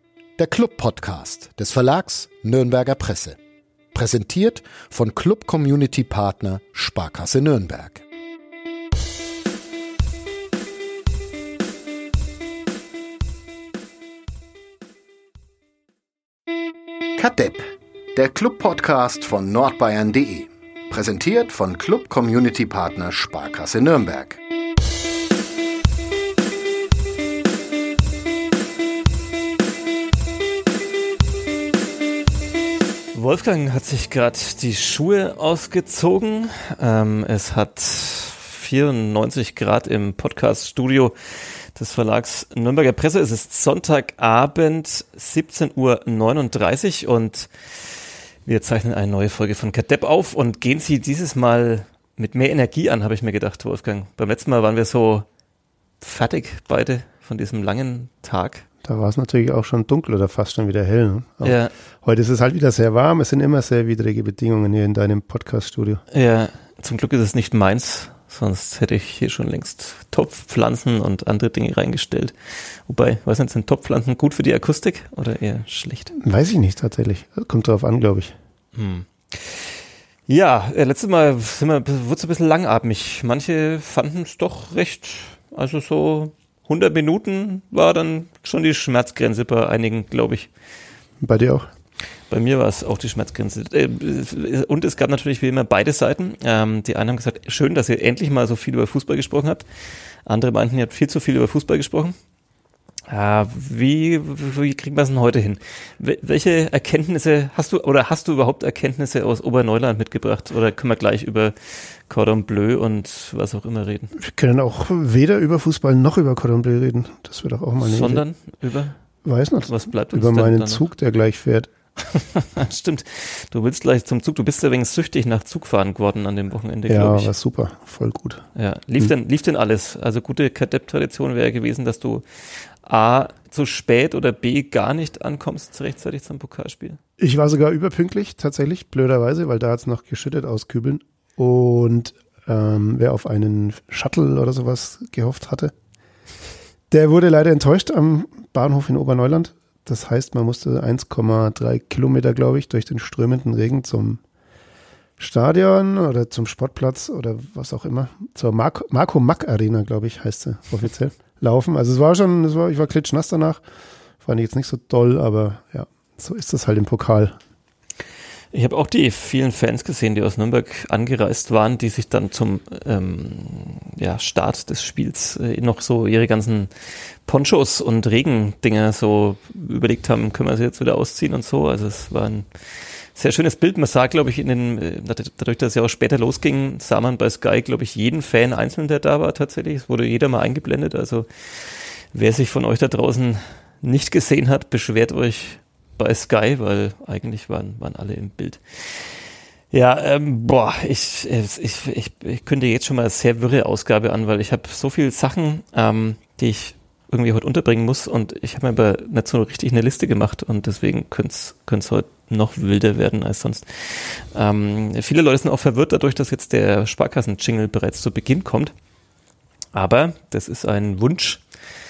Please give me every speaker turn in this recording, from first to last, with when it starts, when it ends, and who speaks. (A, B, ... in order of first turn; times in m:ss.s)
0:00.4-0:03.4 A
0:03.9-0:08.0 A
0:17.2-0:24.4 A
0:33.1-0:55.2 B
0:56.0-0:58.6 B
0:58.8-1:06.0 C
1:01.4-1:01.7 B
1:06.1-1:16.1 B
1:16.2-1:18.3 C
1:18.7-1:30.5 B
1:31.2-1:31.7 C
1:32.3-1:39.7 B
1:40.2-1:42.2 B
1:43.1-1:54.1 B
1:54.2-1:58.2 C
1:57.8-1:59.0 B
1:59.2-2:01.7 C
1:59.7-2:00.8 B
2:02.0-2:07.3 B
2:06.9-2:08.4 C
2:08.5-2:17.0 B
2:17.2-2:25.7 C
2:26.9-2:34.2 C
2:35.2-2:43.6 C
2:44.2-2:47.4 C
2:48.5-3:38.7 B
3:39.7-3:41.4 B